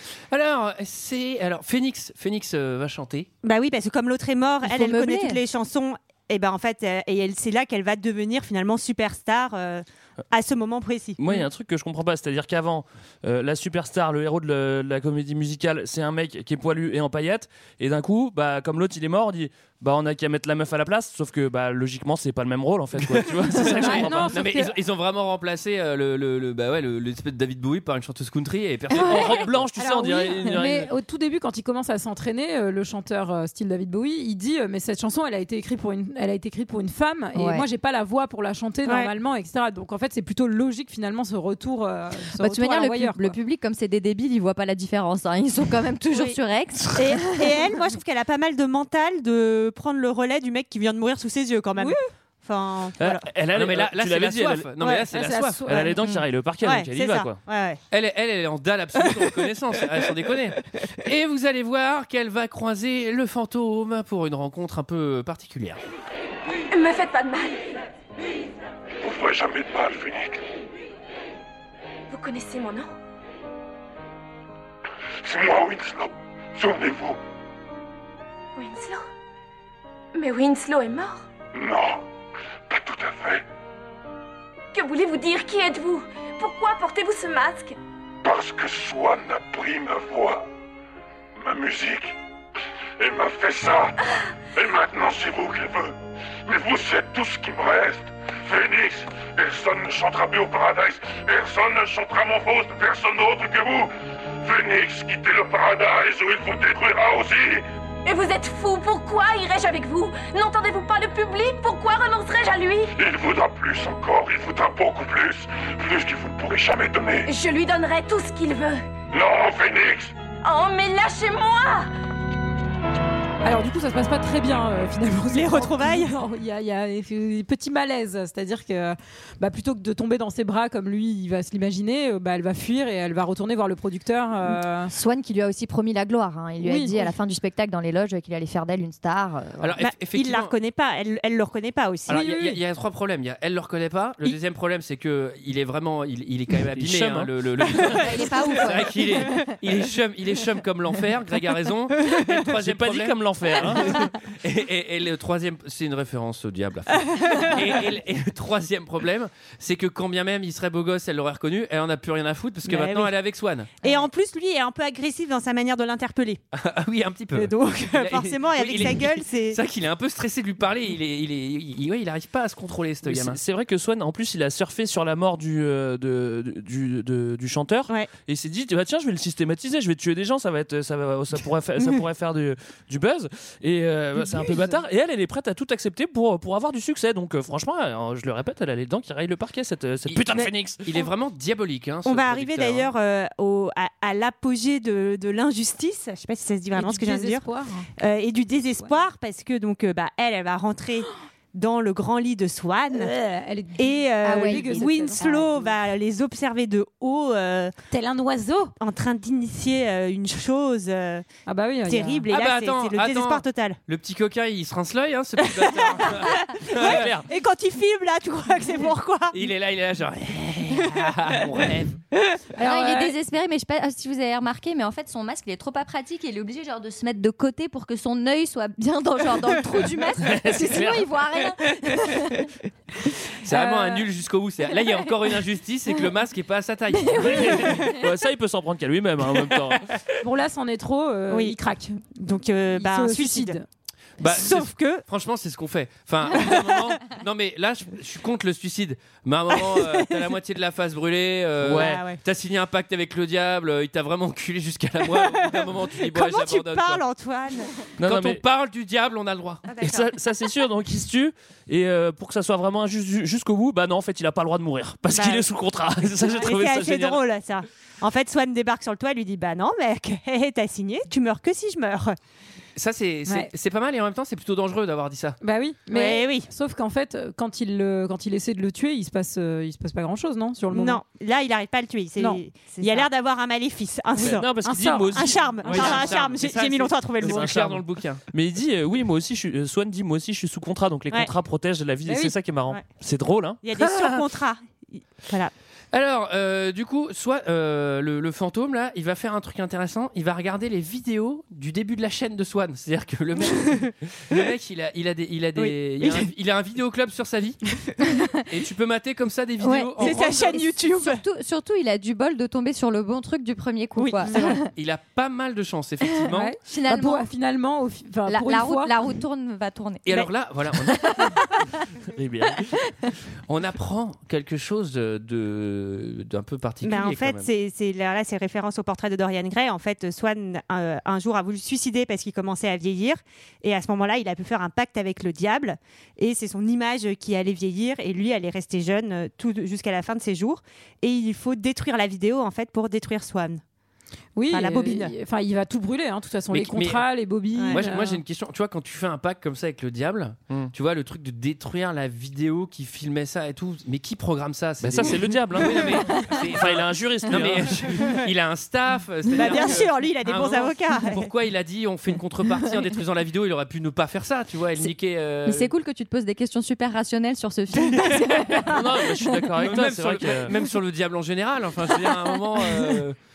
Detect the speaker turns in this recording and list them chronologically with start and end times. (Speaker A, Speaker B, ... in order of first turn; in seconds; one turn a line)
Speaker A: 0.3-3.3
Speaker B: 3.4-11.2
Speaker C: 4.6-5.4
Speaker D: 11.2-24.4
Speaker A: 23.0-29.7
Speaker E: 23.7-24.7
Speaker D: 29.0-30.9
Speaker E: 29.8-43.4
Speaker C: 37.3-37.6
Speaker B: 38.8-39.1
Speaker C: 42.3-47.6
Speaker B: 46.1-46.4
Speaker B: 46.9-53.2
Speaker D: 53.0-54.7
Speaker A: 53.5-55.6
Speaker E: 55.1-56.0
Speaker D: 55.6-57.4
Speaker B: 56.6-57.8
Speaker A: 57.9-65.8
Speaker F: 66.7-67.6
Speaker G: 69.0-70.4
Speaker F: 72.1-72.9
Speaker G: 75.2-77.2
Speaker F: 78.5-79.1
Speaker F: 80.1-81.2
Speaker G: 81.5-82.0
Speaker G: 82.7-83.4
Speaker F: 84.7-87.8
Speaker G: 88.2-90.4
Speaker G: 91.4-92.2
Speaker G: 93.0-93.9
Speaker G: 94.5-95.9
Speaker G: 96.5-103.9
Speaker G: 104.4-107.7
Speaker F: 108.0-112.9
Speaker G: 113.0-117.3
Speaker F: 117.2-118.8
Speaker G: 119.1-120.1
Speaker F: 120.4-121.9
Speaker E: 123.4-134.9
Speaker B: 125.3-126.2
Speaker C: 134.4-139.7
Speaker E: 136.6-137.1
Speaker A: 139.6-140.5
Speaker B: 139.8-142.2
Speaker A: 142.1-163.7
Speaker E: 142.1-142.6
Speaker D: 146.7-147.3
Speaker C: 147.9-149.5
Speaker D: 152.4-154.1
Speaker B: 162.7-163.1
Speaker B: 163.8-166.4
Speaker A: 166.5-173.4
Speaker B: 167.3-169.6
Speaker D: 173.0-190.8
Speaker A: 190.1-192.9
Speaker B: 192.0-197.4
Speaker E: 196.7-197.9
Speaker B: 198.0-203.1
Speaker E: 202.9-205.7
Speaker B: 203.8-207.7
Speaker C: 204.2-205.4
Speaker E: 207.9-208.7
Speaker B: 208.8-211.2
Speaker E: 211.5-212.2
Speaker B: 211.8-213.8
Speaker A: 212.3-217.1
Speaker B: 216.7-219.4
Speaker D: 216.7-217.3
Speaker A: 219.3-222.0
Speaker E: 222.6-223.1
Speaker C: 222.6-232.5
Speaker D: 230.4-230.9
Speaker A: 233.4-237.9
Speaker E: 233.5-234.0
Speaker C: 237.2-237.8
Speaker D: 237.4-239.9
Speaker E: 240.2-242.0
Speaker B: 241.3-241.6
Speaker B: 242.2-243.6
Speaker E: 242.7-243.6
Speaker A: 244.2-257.0
Speaker B: 244.2-245.0
Speaker D: 251.6-252.0
Speaker B: 251.7-252.2
Speaker B: 255.2-257.8
Speaker D: 258.0-258.4
Speaker A: 258.0-259.7
Speaker B: 259.6-260.1
Speaker D: 259.8-267.2
Speaker B: 265.1-265.5
Speaker B: 266.2-272.2
Speaker A: 272.8-275.4
Speaker E: 275.4-281.0
Speaker B: 275.9-276.5
Speaker B: 280.7-284.5
Speaker E: 282.2-283.1
Speaker D: 284.2-286.2
Speaker E: 284.3-285.2
Speaker B: 285.1-287.5
Speaker A: 285.6-288.2
Speaker D: 287.2-294.2
Speaker E: 292.1-292.3
Speaker B: 293.6-295.5
Speaker A: 295.9-307.6
Speaker B: 303.6-303.9
Speaker B: 305.6-306.3
Speaker A: 308.4-310.5
Speaker C: 309.6-314.6
Speaker B: 310.0-311.2
Speaker B: 314.0-314.6
Speaker A: 314.7-316.5
Speaker E: 316.3-318.9
Speaker C: 316.6-317.3
Speaker C: 318.2-320.3
Speaker A: 320.1-321.2
Speaker D: 322.1-322.7
Speaker A: 323.5-327.5
Speaker B: 326.8-343.6
Speaker E: 344.4-348.2
Speaker B: 344.5-345.1
Speaker A: 346.5-347.1
Speaker B: 347.5-347.8
Speaker A: 347.7-365.7
Speaker D: 354.8-358.1
Speaker B: 359.4-361.3
Speaker C: 365.4-369.5
Speaker D: 368.6-370.5
Speaker A: 369.6-373.2